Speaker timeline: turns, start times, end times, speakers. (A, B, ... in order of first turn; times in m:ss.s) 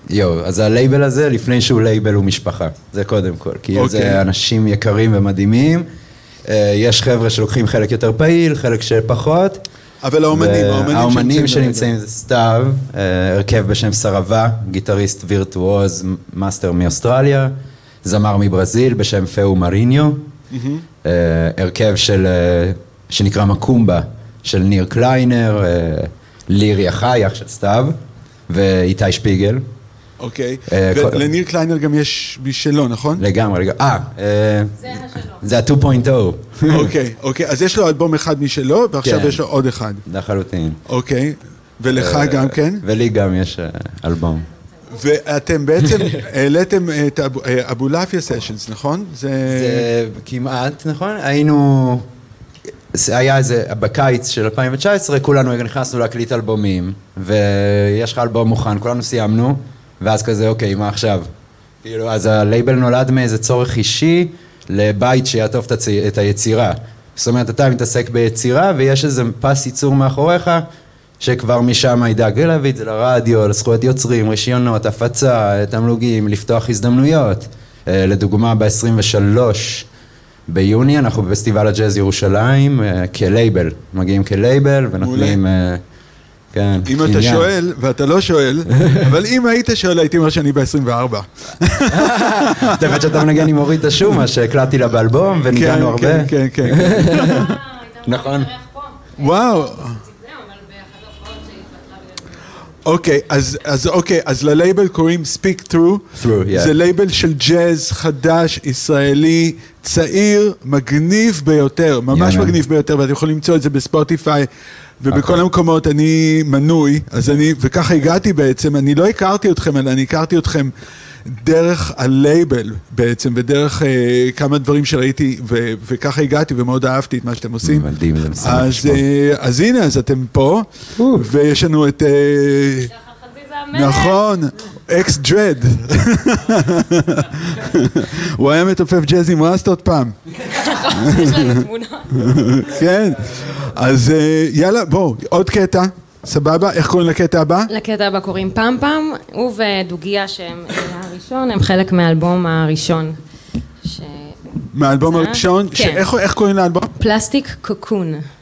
0:00.1-0:05.9 A
0:03.7-0:04.2 B
0:06.5-0:09.6 A
0:10.0-0:11.9 B
0:10.3-0:20.3 A
0:20.5-0:20.9 B
0:21.0-0:28.0 A
0:28.5-0:29.6 A
0:30.2-0:33.2 B
0:30.7-0:31.2 A
0:33.2-0:36.9 A
0:34.8-0:35.4 C
0:36.7-0:40.0 B
0:39.0-0:39.4 A
0:40.0-0:40.8 A
0:40.9-0:42.8 B
0:41.9-0:44.4 A
0:44.9-0:49.9 B
0:49.5-0:52.1 A
0:52.9-1:01.3 A
1:01.8-1:10.6 A
1:11.2-1:19.9 A
1:20.5-1:25.8 A
1:25.0-1:25.4 B
1:26.5-1:27.5 A
1:26.8-1:33.5 B
1:28.8-1:29.1 A
1:31.9-1:38.5 A
1:35.4-1:37.5 B
1:37.3-1:42.5 C
1:39.2-1:40.0 B
1:42.8-1:54.5 B
1:46.1-1:46.7 A
1:52.1-1:52.6 A
1:55.0-2:00.7 B
1:55.1-1:55.4 A
2:01.2-2:12.9 B
2:07.6-2:09.0 A
2:12.9-2:14.2 C
2:13.7-2:20.2 B
2:20.4-2:22.2 C
2:20.9-2:27.7 B
2:27.7-2:33.2 C
2:33.8-2:36.0 C
2:34.7-2:36.9 B
2:37.0-2:38.3 C